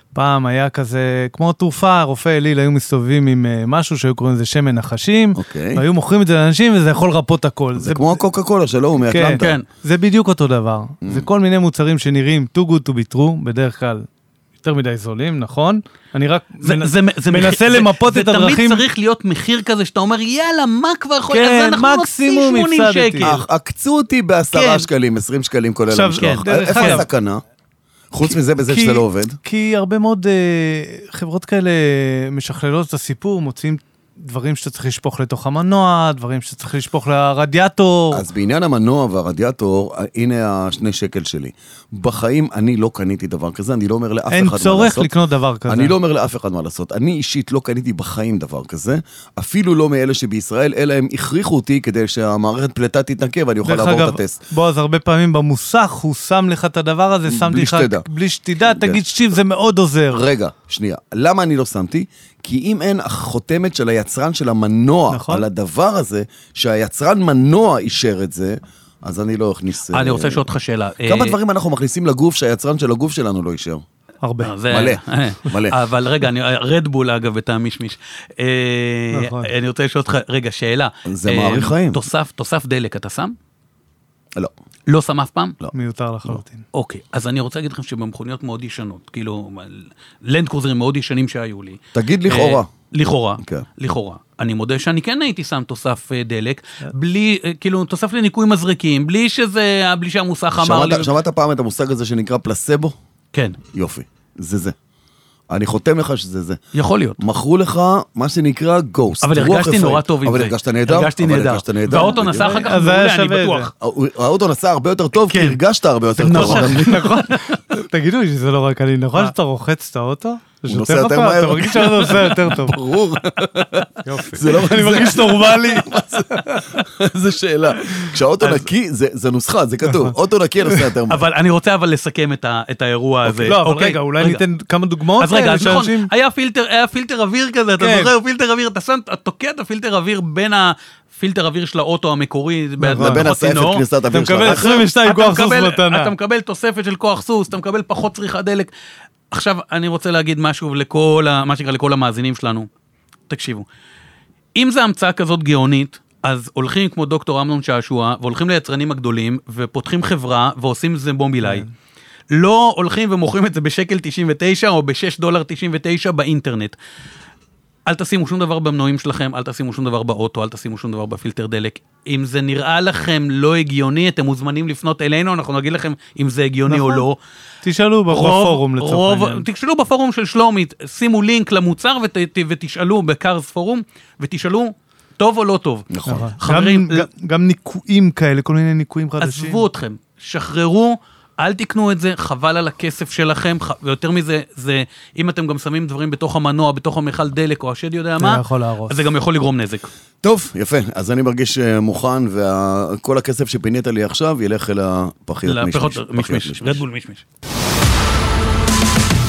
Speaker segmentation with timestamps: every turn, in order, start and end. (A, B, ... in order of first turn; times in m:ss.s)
0:00.1-0:08.2 A
0:05.4-0:05.8 B
0:07.8-0:09.6 B
0:09.1-0:14.0 A
0:09.4-0:09.6 C
0:11.0-0:11.3 B
0:14.6-0:18.8 A
0:16.6-0:23.4 C
0:21.3-0:23.3 A
0:23.2-0:27.4 B
0:24.5-0:24.9 C
0:25.9-0:27.1 A
0:26.2-0:27.0 C
0:28.1-0:29.4 B
0:28.3-0:38.2 A
0:38.1-0:45.1 B
0:44.3-0:45.9 A
0:45.7-0:54.4 B
0:53.6-1:00.2 A
0:57.3-0:58.0 B
0:58.6-0:59.0 B
1:00.1-1:10.4 B
1:05.1-1:05.5 A
1:09.9-1:11.4 C
1:11.0-1:13.8 B
1:14.2-1:14.5 A
1:14.4-1:23.3 C
1:14.7-1:15.8 B
1:19.1-1:19.5 A
1:21.0-1:22.0 B
1:24.9-1:25.6 C
1:25.7-1:26.6 A
1:26.7-1:41.1 C
1:31.9-1:32.7 B
1:40.6-1:42.9 B
1:43.3-1:43.6 C
1:43.7-1:44.7 B
1:45.5-1:46.6 B
1:46.7-1:47.2 C
1:47.2-1:52.5 B
1:49.2-1:53.7 C
1:51.9-1:53.7 A
1:53.8-1:57.1 B
1:55.2-1:55.6 C
1:56.2-1:57.5 C
1:56.2-2:02.8 A
2:00.7-2:11.2 B
2:04.0-2:06.7 A
2:07.9-2:08.7 C
2:11.1-2:14.4 C
2:13.2-2:16.1 A
2:15.2-2:23.8 C
2:17.8-2:18.1 A
2:22.8-2:23.3 A
2:23.0-2:24.7 B
2:24.1-2:26.1 A
2:24.4-2:28.7 C
2:29.3-2:32.7 C
2:33.3-2:33.7 C
2:34.6-2:41.6 C
2:41.4-2:41.7 A
2:42.3-2:46.8 C
2:47.9-2:57.2 C
2:56.7-2:57.0 A
2:57.6-2:59.4 A
2:58.1-3:07.0 C
3:05.9-3:06.3 B
3:06.1-3:09.6 A
3:09.2-3:19.9 C
3:18.2-3:19.0 A
3:20.2-3:26.8 B
3:25.4-3:27.2 C